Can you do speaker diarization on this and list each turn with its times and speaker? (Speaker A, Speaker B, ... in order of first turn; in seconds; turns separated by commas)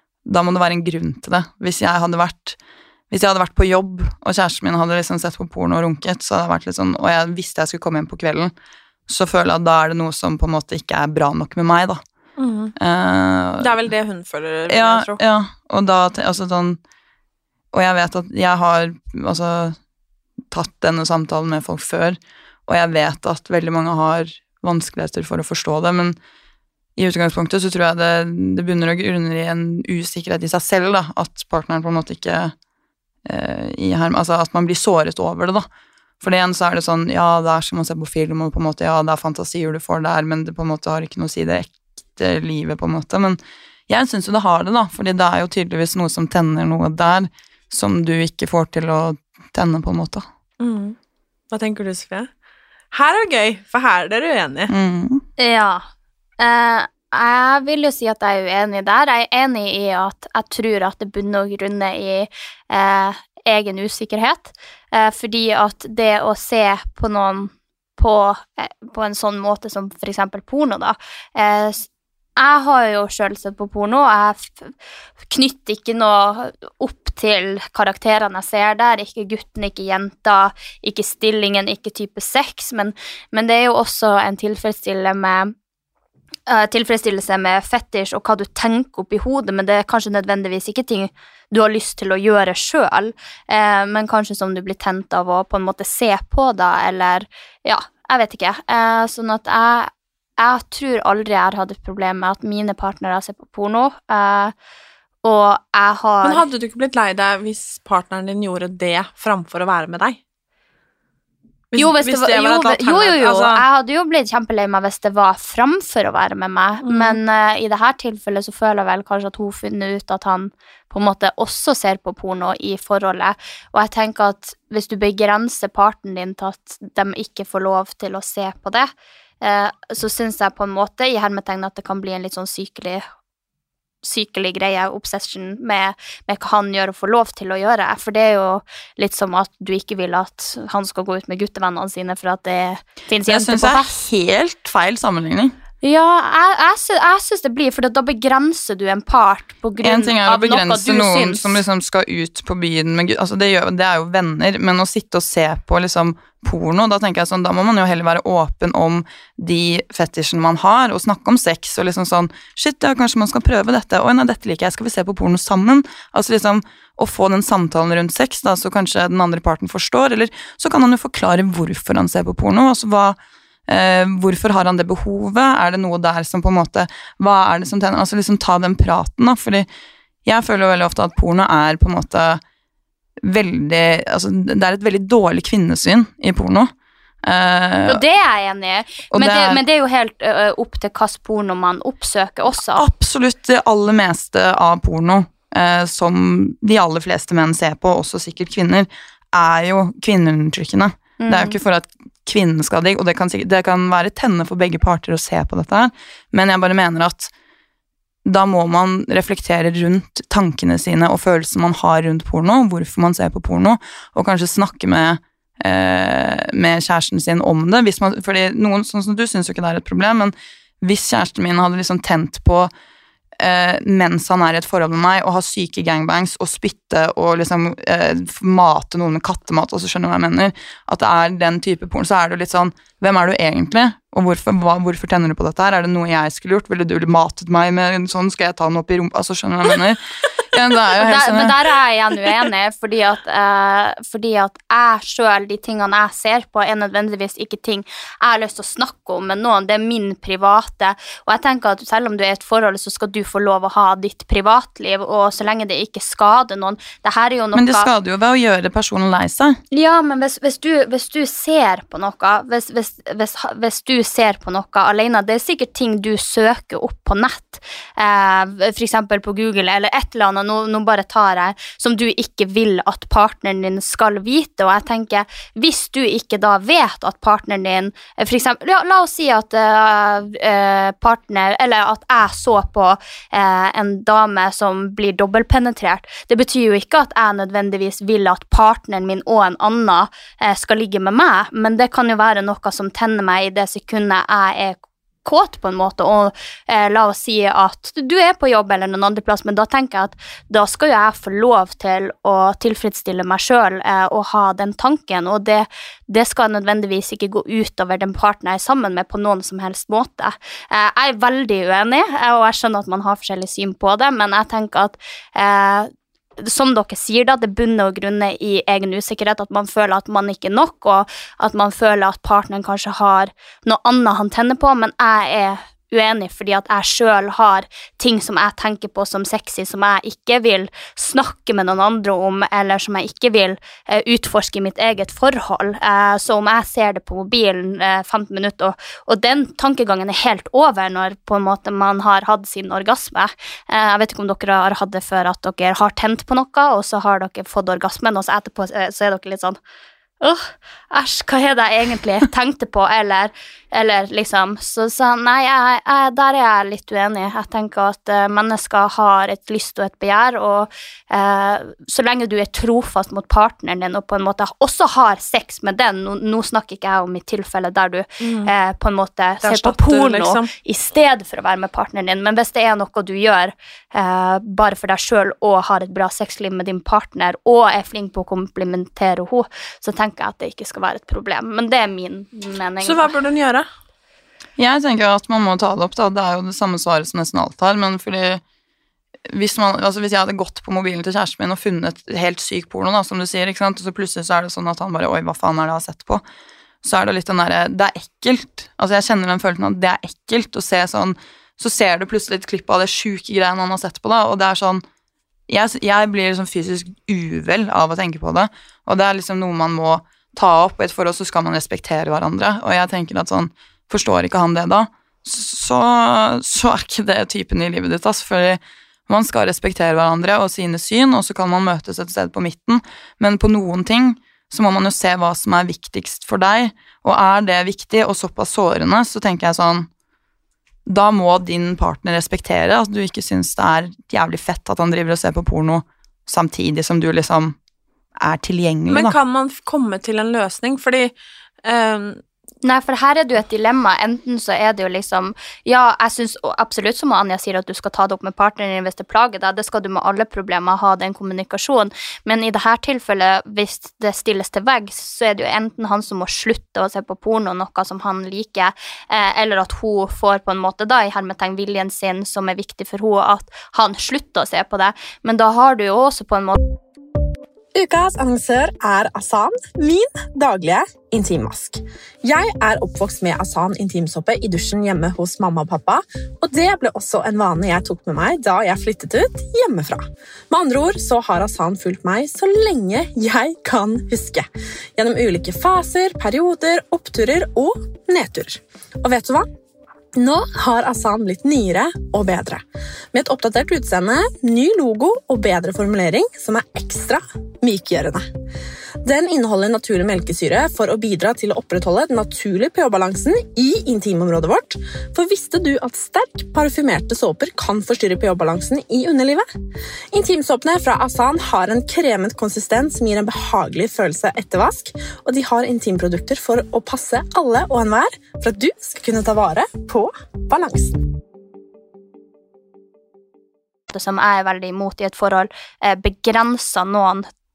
Speaker A: 0.2-2.6, Speaker A: 3.1-8.5, Speaker A: 9.1-12.0, Speaker B: 12.4-12.7, Speaker A: 12.8-13.8, Speaker B: 13.6-15.2, Speaker A: 14.7-16.8, Speaker A: 17.7-19.8, Speaker A: 20.5-26.2, Speaker A: 26.9-32.5, Speaker A: 33.2-35.6, Speaker A: 36.2-50.2, Speaker B: 50.6-51.0, Speaker B: 51.5-52.3, Speaker B: 52.9-54.7, Speaker A: 54.7-55.2, Speaker C: 55.4-55.8, Speaker C: 56.4-71.8, Speaker C: 72.4-74.7, Speaker C: 75.3-85.5, Speaker C: 86.5-104.5, Speaker C: 105.2-106.4, Speaker B: 106.2-110.2, Speaker B: 111.7-113.6, Speaker C: 111.7-133.0, Speaker B: 116.8-117.2, Speaker C: 134.0-143.9, Speaker A: 143.2-145.6, Speaker C: 145.8-151.6, Speaker A: 149.8-179.7, Speaker A: 180.2-182.4, Speaker A: 183.2-186.7, Speaker A: 187.2-188.0, Speaker C: 187.9-192.9, Speaker A: 189.1-189.6, Speaker A: 192.6-207.3, Speaker C: 201.2-201.6, Speaker A: 208.2-222.7, Speaker A: 223.4-240.0, Speaker A: 240.5-241.5, Speaker C: 241.0-257.9, Speaker A: 257.5-259.6, Speaker C: 259.7-349.6, Speaker C: 350.2-383.1, Speaker B: 368.2-368.5, Speaker B: 369.4-370.5, Speaker B: 382.8-383.6, Speaker A: 384.6-388.4, Speaker A: 389.3-396.2, Speaker A: 396.8-404.8, Speaker A: 405.5-429.9, Speaker A: 430.9-437.6, Speaker A: 438.2-439.1, Speaker B: 438.9-441.1, Speaker B: 441.6-442.2, Speaker C: 442.6-466.6, Speaker D: 467.7-484.4, Speaker D: 485.0-489.5, Speaker D: 490.1-492.6, Speaker D: 493.1-498.2, Speaker D: 499.0-509.4, Speaker D: 510.1-521.0, Speaker C: 523.9-527.3